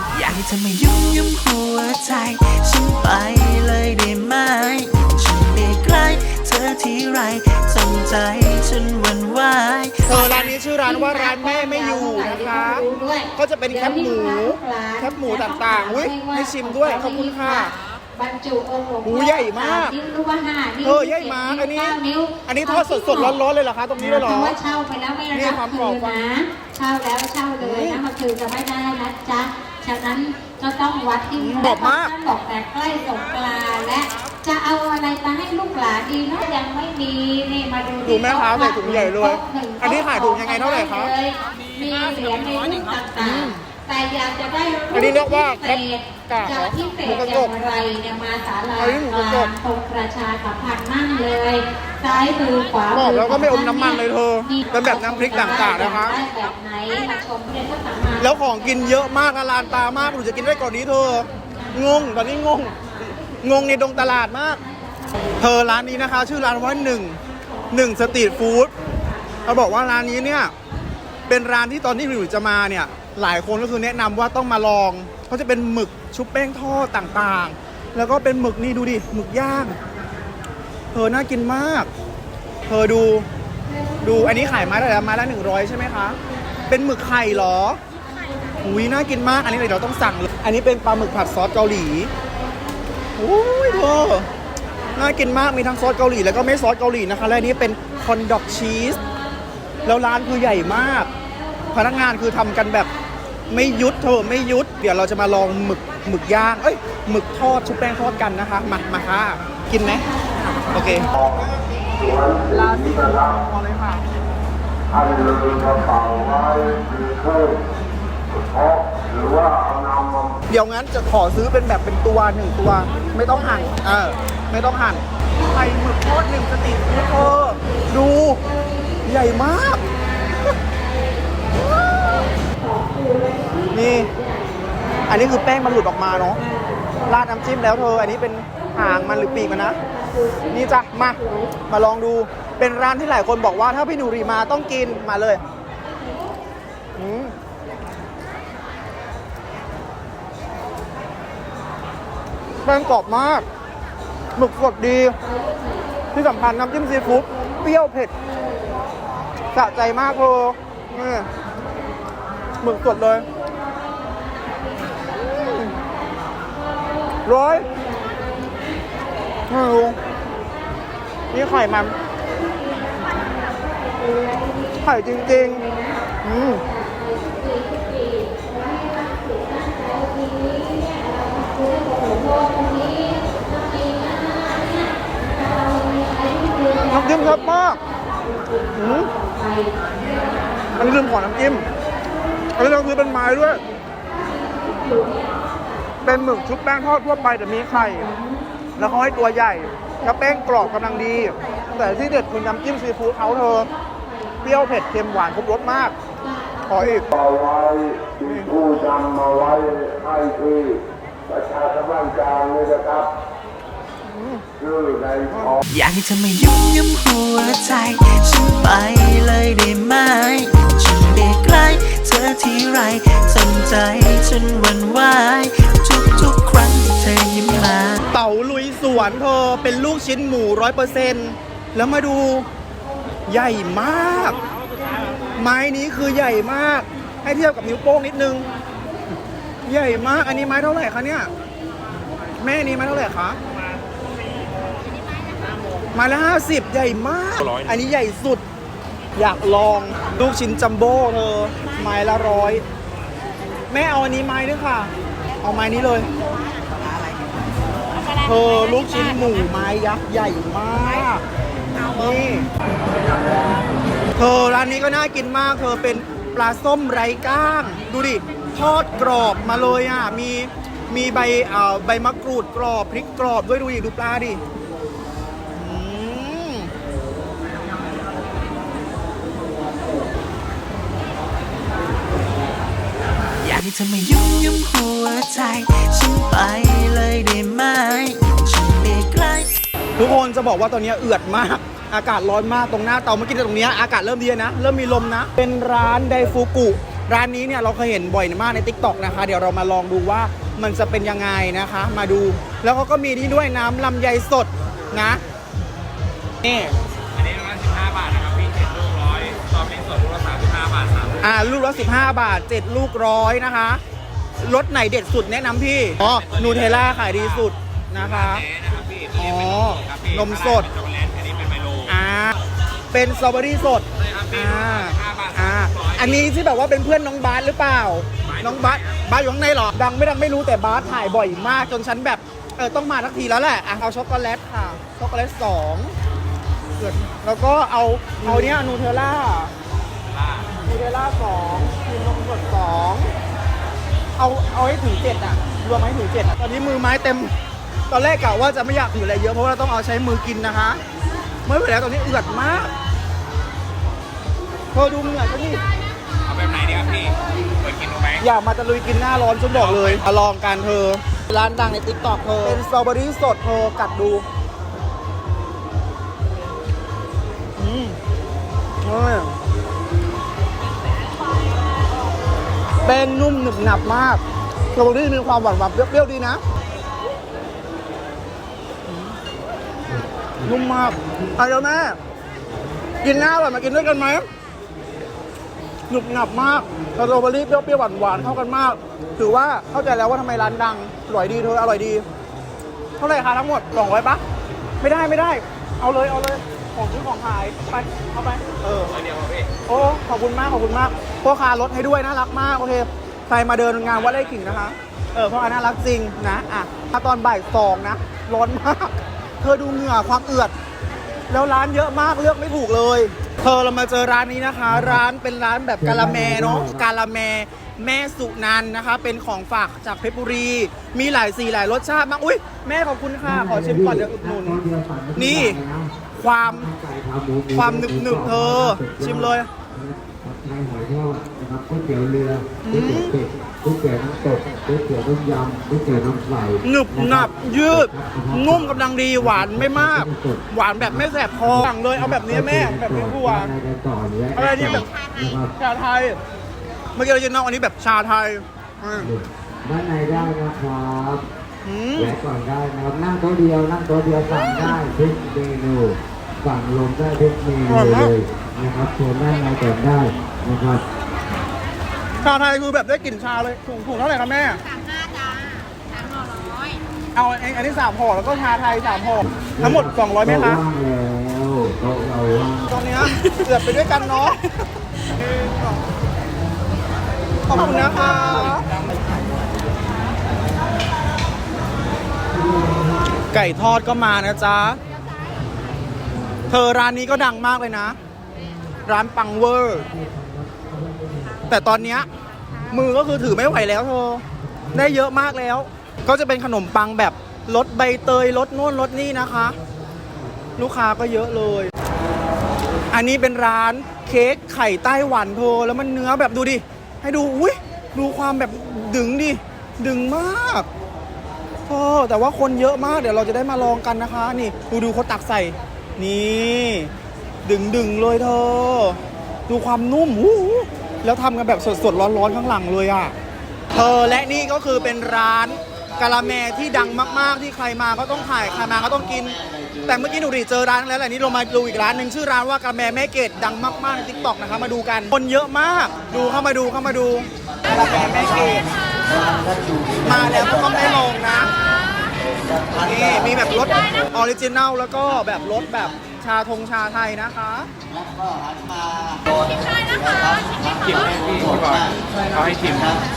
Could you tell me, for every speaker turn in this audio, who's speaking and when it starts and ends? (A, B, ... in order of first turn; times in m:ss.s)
0:00.1-0:10.5 A
0:10.1-0:17.7 B
0:10.8-0:23.4 C
0:19.0-0:20.0 B
0:20.8-0:24.6 B
0:24.0-0:58.3 C
0:25.3-0:26.2 B
0:27.6-0:28.0 B
0:31.4-0:32.1 B
0:38.0-0:41.1 B
0:43.2-0:43.6 B
0:44.9-0:47.5 B
0:48.8-0:49.5 B
0:52.9-0:56.2 B
0:58.2-1:04.6 B
1:05.4-1:07.2 B
1:07.7-1:08.7 B
1:08.0-1:08.2 C
1:09.1-1:09.4 C
1:09.4-1:10.5 B
1:11.3-1:19.8 B
1:20.9-1:21.9 B
1:22.7-1:23.3 B
1:24.0-1:26.2 B
1:26.7-1:27.8 B
1:28.6-1:32.1 B
1:33.2-1:34.3 B
1:35.0-1:39.0 B
1:39.8-1:41.1 B
1:41.7-1:42.9 B
1:43.5-1:50.1 B
1:50.1-1:51.1 C
1:50.7-1:51.1 B
1:52.0-1:53.4 D
1:52.5-1:54.0 B
1:54.9-1:57.7 D
1:58.3-2:00.4 D
2:00.5-2:08.4 B
2:09.1-2:09.8 B
2:11.6-2:12.2 B
2:12.5-2:15.0 C
2:13.7-2:14.1 B
2:15.1-2:16.4 B
2:16.4-2:17.0 C
2:17.1-2:19.8 B
2:19.0-2:20.6 C
2:20.5-2:25.4 B
2:21.1-2:21.6 C
2:27.0-2:27.3 B
2:32.6-2:33.5 B
2:34.4-2:35.2 B
2:35.3-2:35.9 C
2:36.1-2:38.1 B
2:38.2-2:38.8 C
2:39.5-2:41.3 B
2:42.6-2:43.3 B
2:44.3-2:49.4 C
2:45.2-2:45.7 B
2:47.2-2:47.7 B
2:49.5-2:50.0 B
2:49.9-2:50.6 C
2:51.3-2:52.0 B
2:52.2-3:10.9 C
2:54.8-2:55.6 B
2:56.2-2:56.6 B
3:06.9-3:07.8 B
3:08.8-3:09.1 B
3:10.8-3:11.7 B
3:12.6-3:13.6 B
3:14.3-3:15.5 C
3:16.0-3:18.1 B
3:17.7-3:18.5 C
3:18.8-3:23.7 B
3:20.8-3:22.2 C
3:23.2-3:24.4 C
3:24.4-3:26.0 B
3:26.2-3:27.0 C
3:26.7-3:27.1 B
3:27.1-3:33.2 D
3:28.2-3:28.5 B
3:34.1-3:34.4 B
3:34.6-3:35.6 D
3:35.7-3:48.0 A
3:48.1-3:52.5 B
3:53.3-3:54.4 B
3:55.4-3:58.5 B
3:59.7-4:01.3 B
4:02.4-4:03.4 B
4:05.9-4:08.4 B
4:07.4-4:07.8 E
4:09.2-4:12.6 B
4:13.7-4:16.1 B
4:18.0-4:18.2 C
4:18.2-4:21.2 B
4:21.8-4:22.5 B
4:24.2-4:34.4 B
4:35.5-4:36.7 B
4:43.4-4:49.5 A
4:50.0-5:05.2 B
5:06.4-5:06.7 B
5:07.1-5:11.3 E
5:11.2-5:13.8 B
5:14.4-5:18.4 B
5:16.0-5:22.0 E
5:19.2-5:20.7 B
5:21.9-5:22.4 B
5:22.9-5:36.0 B
5:24.0-5:26.3 E
5:28.3-5:29.0 E
5:36.8-5:39.5 B
5:40.1-5:40.5 E
5:40.6-5:43.1 B
5:44.2-5:47.3 B
5:47.9-5:50.8 B
5:51.5-5:52.7 B
5:54.7-5:55.6 B
5:56.2-5:58.2 E
5:58.2-6:04.2 B
5:59.5-6:00.0 E
6:07.6-6:08.0 B
6:08.8-6:09.3 B
6:12.8-6:14.2 B
6:14.7-6:16.4 B
6:18.9-6:19.2 B
6:19.9-6:20.5 F
6:20.4-6:22.0 B
6:23.0-6:24.3 B
6:25.9-6:32.0 B
6:33.0-6:34.2 B
6:34.8-6:38.9 B
6:38.8-6:39.5 E
6:39.7-6:50.5 B
6:43.8-6:44.7 E
6:51.3-7:04.6 B
6:54.7-6:55.0 F
6:55.8-6:56.9 F
7:03.2-7:25.5 F
7:05.2-7:05.6 B
7:06.1-7:06.7 B
7:07.6-7:09.5 B
7:12.6-7:13.2 B
7:16.6-7:23.5 B
7:24.3-7:24.9 B
7:25.6-7:26.2 B
7:27.0-7:29.1 B
7:29.0-7:31.3 F
7:31.6-7:32.2 B
7:32.0-7:40.8 F
7:34.4-7:34.8 B
7:37.7-7:38.1 B
7:42.2-7:44.6 B
7:47.2-7:50.6 B
7:49.2-7:52.7 F
7:52.7-7:54.4 B
7:55.2-7:55.6 B
7:57.5-7:58.7 B
8:02.4-8:02.9 F
8:03.3-8:04.8 B
8:06.5-8:08.0 B
8:08.8-8:09.9 B
8:09.9-8:11.5 F
8:11.5-8:12.1 B
8:12.7-8:19.6 B
8:20.6-8:21.7 B
8:22.9-8:30.7 B
8:31.7-8:36.9 B
8:37.4-8:43.1 B
8:43.7-8:58.7 B
9:00.0-9:01.5 B
9:02.8-9:07.7 B
9:10.5-9:13.0 E
9:12.1-9:12.6 B